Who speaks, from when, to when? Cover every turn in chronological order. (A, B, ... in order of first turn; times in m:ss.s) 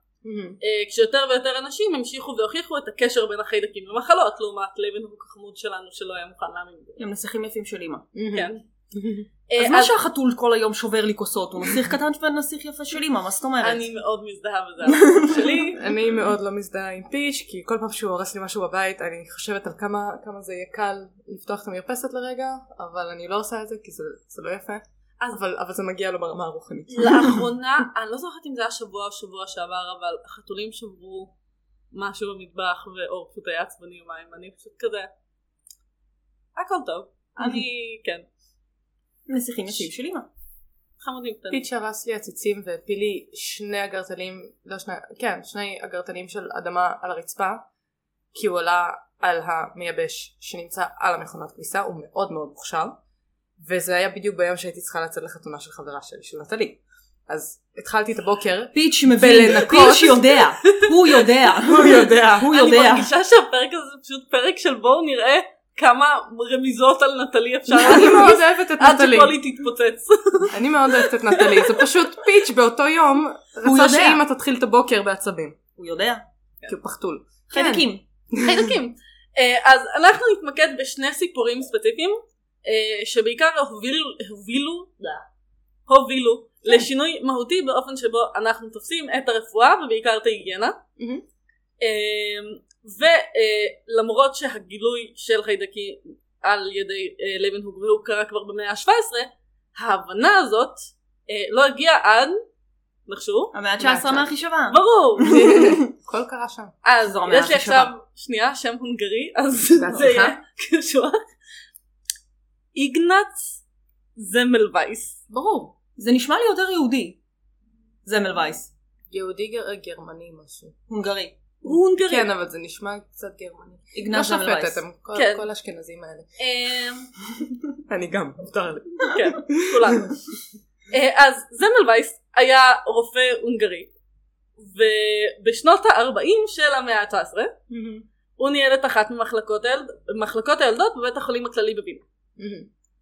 0:00.2-0:00.6 A
0:00.6-0:07.0 B
0:07.0-0:08.0 C
0:08.1-0:09.3 A
0:08.3-0:08.6 B
0:09.5-0:09.9 B
0:09.6-0:13.9 C
0:13.6-0:15.8 B
0:14.9-0:15.6 C
0:15.6-0:27.4 A
0:26.9-0:31.3 B
0:31.9-0:35.1 B
0:36.6-0:38.2 B
0:39.3-0:40.3 C
0:41.0-0:41.6 B
0:41.5-0:47.6 A
0:48.3-0:52.9 A
0:53.6-1:00.4 A
0:58.7-1:03.1 C
1:00.6-1:01.2 B
1:01.6-1:02.5 A
1:02.5-1:11.7 B
1:07.7-1:09.4 A
1:10.5-1:15.6 A
1:13.6-1:14.2 C
1:15.8-1:16.2 C
1:16.6-1:18.8 A
1:17.5-1:18.0 C
1:18.4-1:25.2 B
1:25.9-1:30.8 B
1:31.0-1:31.2 A
1:31.8-1:42.4 B
1:43.1-1:43.5 B
1:43.5-1:45.9 C
1:43.8-1:44.3 A
1:44.7-1:45.6 B
1:45.2-1:46.8 A
1:46.8-1:51.2 B
1:47.0-1:47.8 C
1:47.5-1:47.8 A
1:49.8-1:50.4 A
1:52.7-1:53.6 B
1:54.2-1:55.2 B
1:55.3-1:55.7 A
1:56.0-1:57.2 C
1:58.0-1:58.7 C
1:59.1-2:00.7 A
2:00.9-2:01.4 C
2:01.6-2:02.3 B
2:01.7-2:06.3 A
2:03.9-2:04.8 C
2:05.1-2:05.4 B
2:06.4-2:07.1 B
2:07.8-2:10.0 A
2:09.1-2:10.1 B
2:10.9-2:13.9 B
2:14.6-2:17.5 B
2:17.7-2:18.0 A
2:18.4-2:22.0 B
2:22.4-2:22.7 A